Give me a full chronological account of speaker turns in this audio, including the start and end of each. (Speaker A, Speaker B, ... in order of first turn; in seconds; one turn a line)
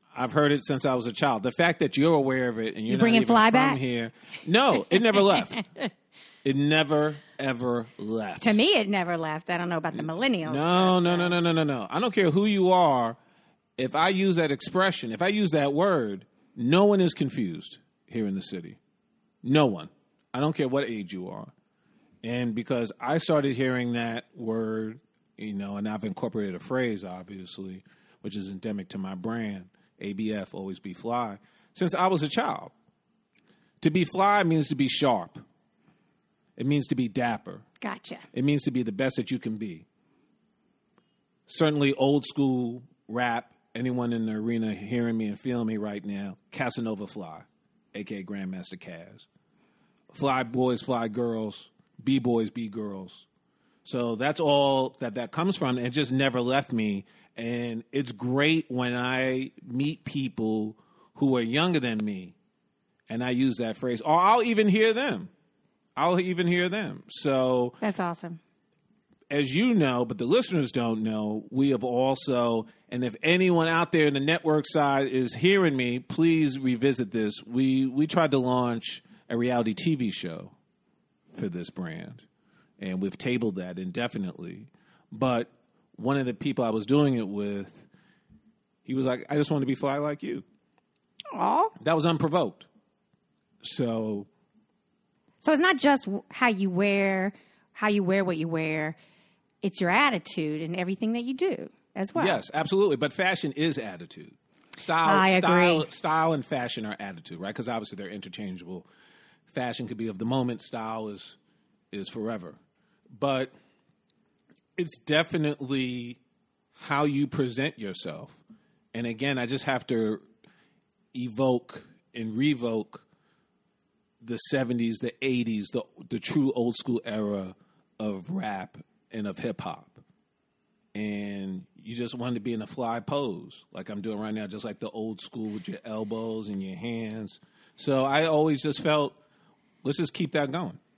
Speaker A: 0.1-5.6
Speaker B: 2.9-3.8
Speaker B: 4.9-5.9
Speaker A: 6.4-8.6
Speaker B: 8.4-11.3
Speaker A: 9.9-13.2
Speaker A: 13.8-18.8
Speaker A: 19.4-21.5
Speaker A: 22.2-32.7
Speaker A: 33.8-35.4
Speaker A: 36.6-37.6
Speaker B: 37.8-38.2
Speaker A: 38.3-39.8
Speaker A: 41.5-49.3
Speaker A: 50.1-53.2
Speaker A: 53.8-62.3
Speaker A: 63.1-65.3
Speaker A: 66.0-67.8
Speaker B: 67.8-68.4
Speaker A: 69.3-80.5
Speaker A: 81.3-82.2
Speaker A: 82.8-87.9
Speaker A: 88.8-90.4
Speaker B: 91.3-91.7
Speaker A: 91.8-92.7
Speaker A: 93.6-94.3
Speaker B: 95.4-99.0
Speaker B: 99.6-102.4
Speaker A: 102.2-108.9
Speaker B: 105.0-105.9
Speaker A: 109.5-111.3
Speaker A: 111.9-112.6
Speaker A: 113.2-113.5
Speaker A: 114.8-116.2
Speaker A: 116.7-118.4
Speaker A: 118.9-120.2
Speaker A: 121.1-123.0
Speaker A: 124.2-130.0
Speaker A: 130.9-139.2
Speaker A: 139.8-140.8